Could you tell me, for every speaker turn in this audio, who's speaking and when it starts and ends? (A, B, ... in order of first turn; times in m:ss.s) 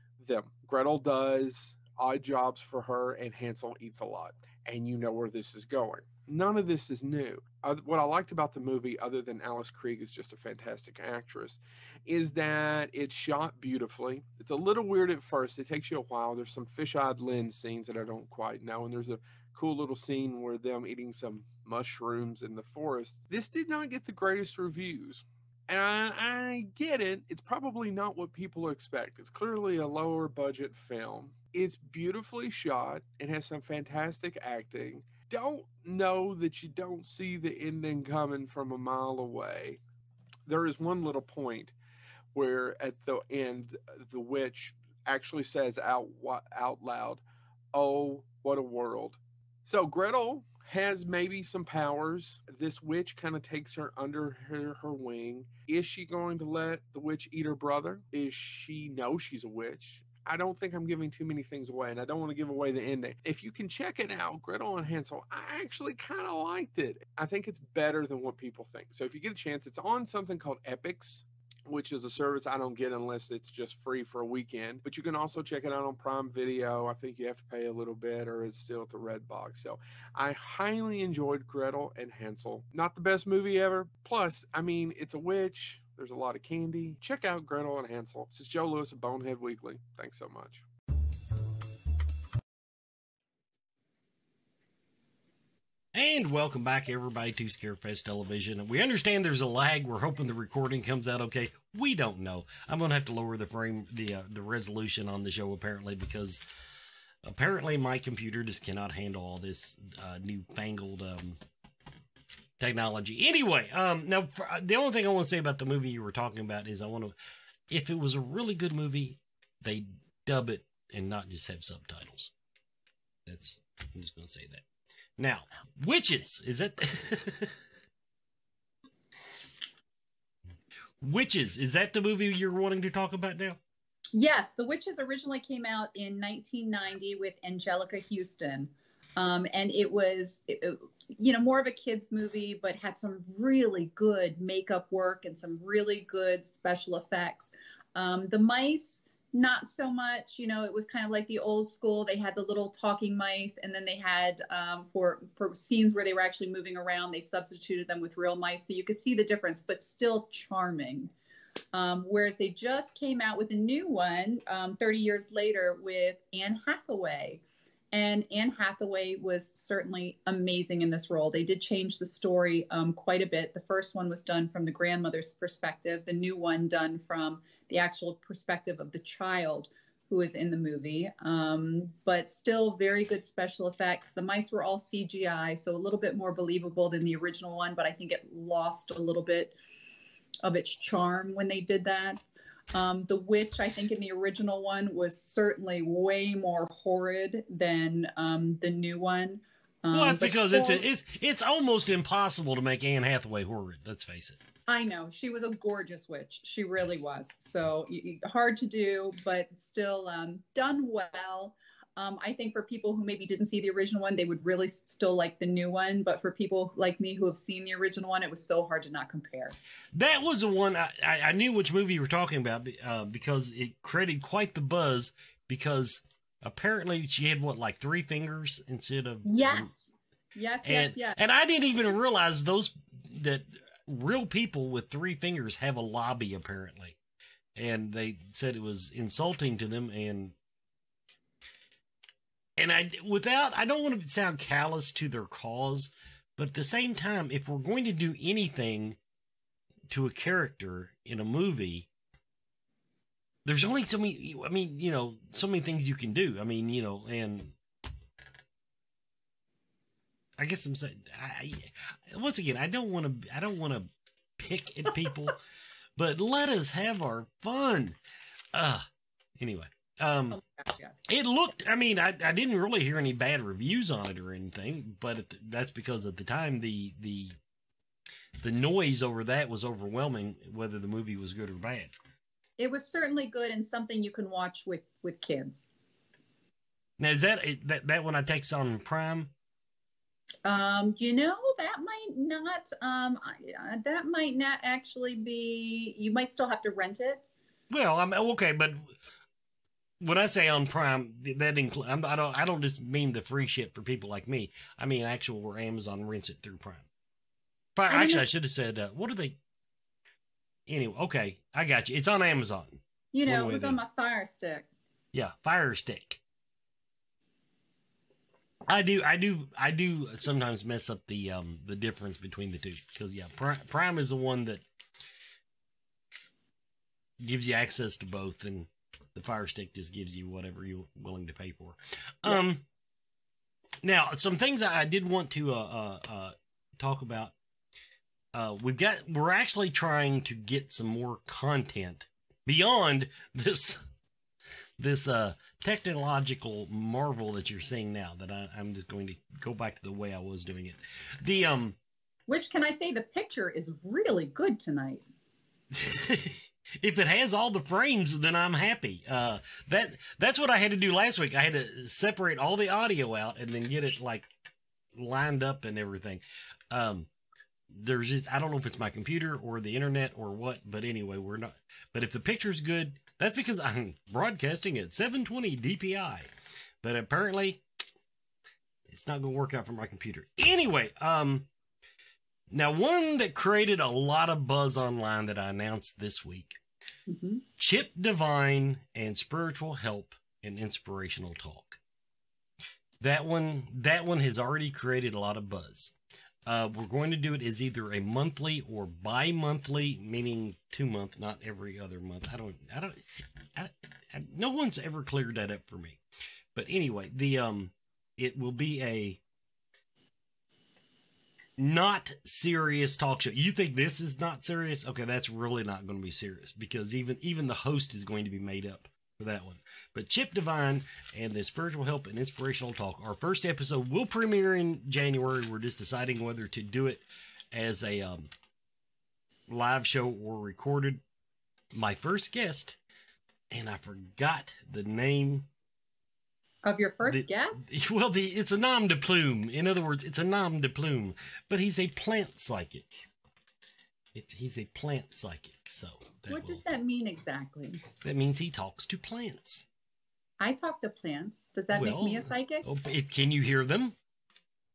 0:00.2-0:39.8 A
0:40.5-0:41.7 A
0:42.3-0:47.2 A
0:47.7-1:30.6 A
1:35.9-1:46.4 B
1:47.2-1:51.4 B
1:52.6-1:57.2 B
1:57.7-2:02.3 B
2:03.3-2:04.6 B
2:05.2-2:07.5 B
2:11.0-2:13.6 B
2:14.1-2:41.1 C
2:41.7-3:09.6 C
3:10.4-3:12.2 C
3:12.7-3:20.8 C
3:19.9-3:24.4 B
3:24.7-3:39.6 C
3:39.9-3:49.7 B
3:49.2-3:51.2 C
3:50.6-3:57.0 B
3:57.6-4:00.4 B
4:02.6-4:09.0 B
4:09.9-4:11.9 B
4:13.4-4:17.6 B
4:20.4-4:25.4 B
4:26.0-4:28.0 B
4:28.5-4:28.9 B
4:29.4-4:30.4 B
4:30.3-4:31.0 C
4:31.1-4:37.4 B
4:38.4-4:41.9 B
4:42.6-4:45.7 C
4:47.0-4:49.3 B
4:50.4-4:57.2 C
4:57.7-4:58.9 B
5:00.0-5:06.9 B
5:07.8-5:09.4 B
5:07.9-5:08.3 C
5:10.7-5:13.8 B
5:13.1-5:14.7 C
5:15.1-5:16.2 B
5:18.7-5:24.6 B
5:27.2-5:32.6 B
5:33.8-5:37.3 B
5:38.3-5:43.8 B
5:44.8-5:51.8 B
5:52.3-5:55.0 C
5:55.7-6:04.3 B
6:05.0-6:07.1 B
6:07.7-6:16.3 B
6:16.8-6:17.6 B
6:18.9-6:21.5 B
6:22.5-6:26.6 B
6:27.1-6:27.4 C
6:27.6-6:31.8 B
6:33.0-6:35.9 B
6:36.5-6:43.0 B
6:43.6-6:46.0 B
6:46.6-6:49.2 B
6:51.6-7:08.3 B
7:09.5-7:11.0 B
7:11.7-7:12.8 B
7:13.5-7:15.5 B
7:16.6-7:17.6 C
7:17.1-7:23.0 B
7:24.1-7:26.6 B
7:26.3-7:27.8 C
7:28.0-7:29.7 B
7:30.4-7:32.6 C
7:31.7-7:34.0 B